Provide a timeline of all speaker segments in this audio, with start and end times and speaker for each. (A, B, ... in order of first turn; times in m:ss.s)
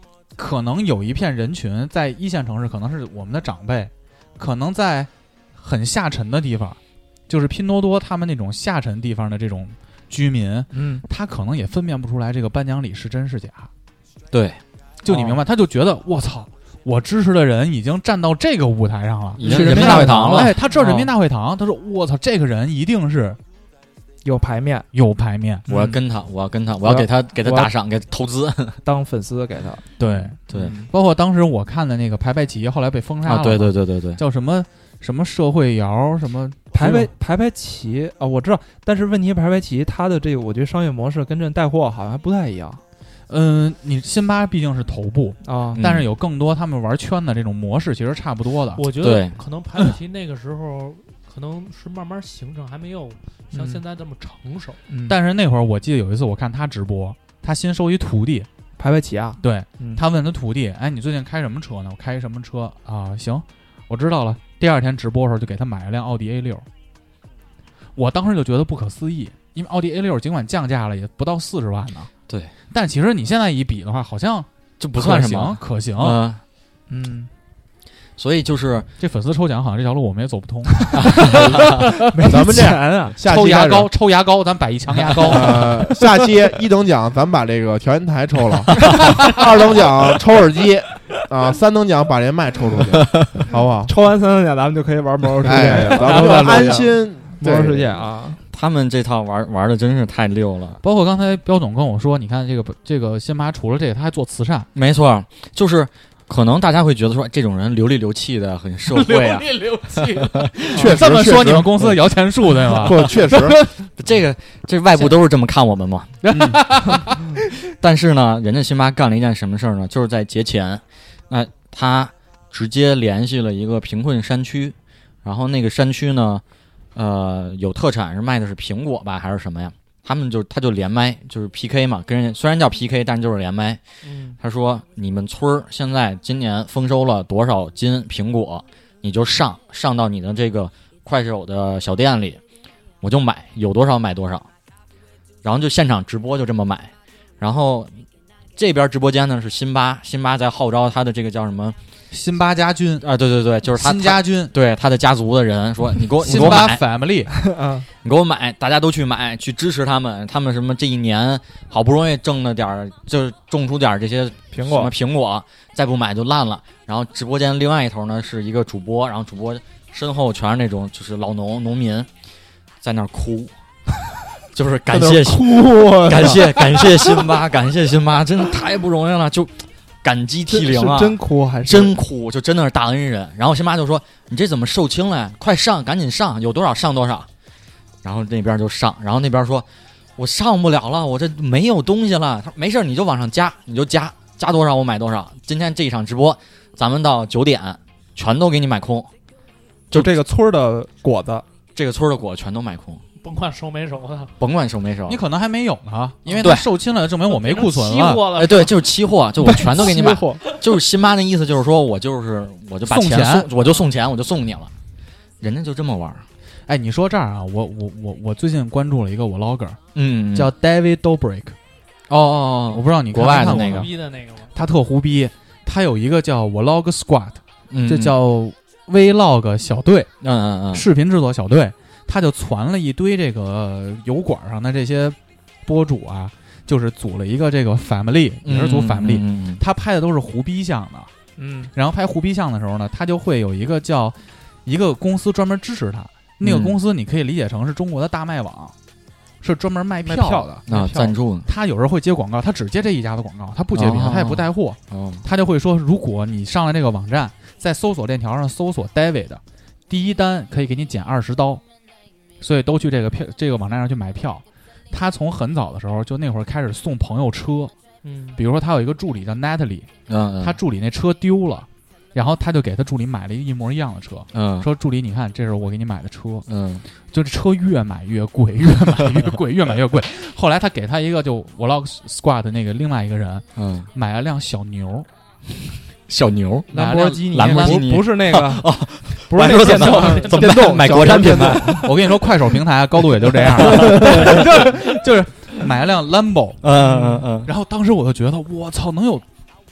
0:00.4-0:06.8 A
0:07.3-0:13.7 A
0:10.7-0:11.0 B
0:14.3-0:14.6 C
0:15.0-0:23.4 A
0:15.0-0:15.4 B
0:19.4-0:20.5 C
0:19.4-0:21.1 B
0:24.2-0:24.9 B
0:24.9-0:25.7 A
0:25.7-0:26.0 B
0:25.7-0:28.8 C
0:26.8-0:27.7 B
0:28.8-0:29.8 B
0:30.0-0:37.1 A
0:30.5-0:30.9 B
0:33.2-0:34.2 C
0:36.7-0:42.8 B
0:43.3-0:48.8 A
0:45.4-0:45.8 B
0:45.7-0:46.1 C
0:48.8-0:54.8 D
0:49.0-0:49.4 C
0:53.5-0:53.8 B
0:54.9-0:55.2 B
0:55.1-0:58.5 A
0:58.8-1:00.0 B
0:59.4-1:06.6 A
1:07.9-1:12.1 A
1:12.7-1:16.2 A
1:14.8-1:16.4 C
1:16.9-1:17.3 B
1:18.2-1:18.9 C
1:19.0-1:22.4 A
1:21.0-1:21.3 C
1:21.2-1:23.2 B
1:22.3-1:23.9 E
1:23.2-1:25.8 A
1:25.2-1:25.6 B
1:25.3-1:33.9 E
1:33.8-1:38.4 B
1:35.4-1:38.0 E
1:38.5-1:40.8 C
1:40.8-1:44.7 A
1:44.7-1:50.4 C
1:48.9-1:53.7 A
1:50.7-1:52.0 E
1:52.7-1:53.6 E
1:54.0-1:56.2 C
1:56.2-1:57.2 A
1:57.8-2:06.4 C
2:06.9-2:13.8 C
2:14.0-2:14.4 D
2:14.4-2:22.4 C
2:23.0-2:24.5 C
2:25.4-2:28.0 C
2:28.6-2:31.8 C
2:32.1-2:33.0 A
2:33.0-2:36.8 C
2:33.7-2:34.5 A
2:36.2-2:37.3 A
2:37.3-2:37.9 B
2:38.0-2:52.1 C
2:44.5-2:44.9 B
2:52.8-2:53.5 C
2:54.5-3:07.3 C
2:54.9-2:57.0 E
2:56.0-2:56.3 B
3:00.5-3:02.0 B
3:08.0-3:09.6 C
3:10.2-3:19.1 C
3:19.9-3:21.4 B
3:19.9-3:20.2 C
3:21.7-3:23.0 C
3:23.2-3:24.3 D
3:24.4-3:25.2 C
3:25.1-3:28.3 A
3:26.3-3:26.5 D
3:26.4-3:26.7 C
3:27.2-3:28.9 D
3:28.3-3:34.7 C
3:29.4-3:30.4 B
3:32.8-3:33.5 A
3:35.4-3:36.2 C
3:36.7-3:39.8 A
3:39.9-3:40.5 C
3:40.3-3:41.6 A
3:42.1-3:43.9 C
3:42.7-3:44.0 A
3:43.3-3:44.5 D
3:44.5-3:50.1 A
3:47.7-3:48.2 C
3:50.2-3:50.8 C
3:50.7-4:01.1 A
3:58.4-3:59.6 C
4:01.4-4:01.7 B
4:01.7-4:08.7 A
4:06.4-4:06.8 C
4:09.4-4:21.6 A
4:10.0-4:10.5 B
4:10.7-4:11.5 C
4:13.7-4:15.2 C
4:22.4-4:27.7 A
4:28.0-4:28.4 D
4:28.4-4:29.9 A
4:30.1-4:30.6 C
4:30.4-4:36.4 A
4:34.3-4:34.7 C
4:36.5-4:36.8 C
4:37.1-4:45.1 A
4:43.6-4:43.9 C
4:46.1-4:46.7 C
4:46.7-4:51.8 B
4:46.7-4:47.8 A
4:47.3-4:51.9 C
4:49.4-4:50.6 D
4:50.5-4:51.8 E
4:51.7-4:59.2 A
4:53.6-4:54.4 C
4:56.6-4:57.5 C
4:56.8-4:57.2 B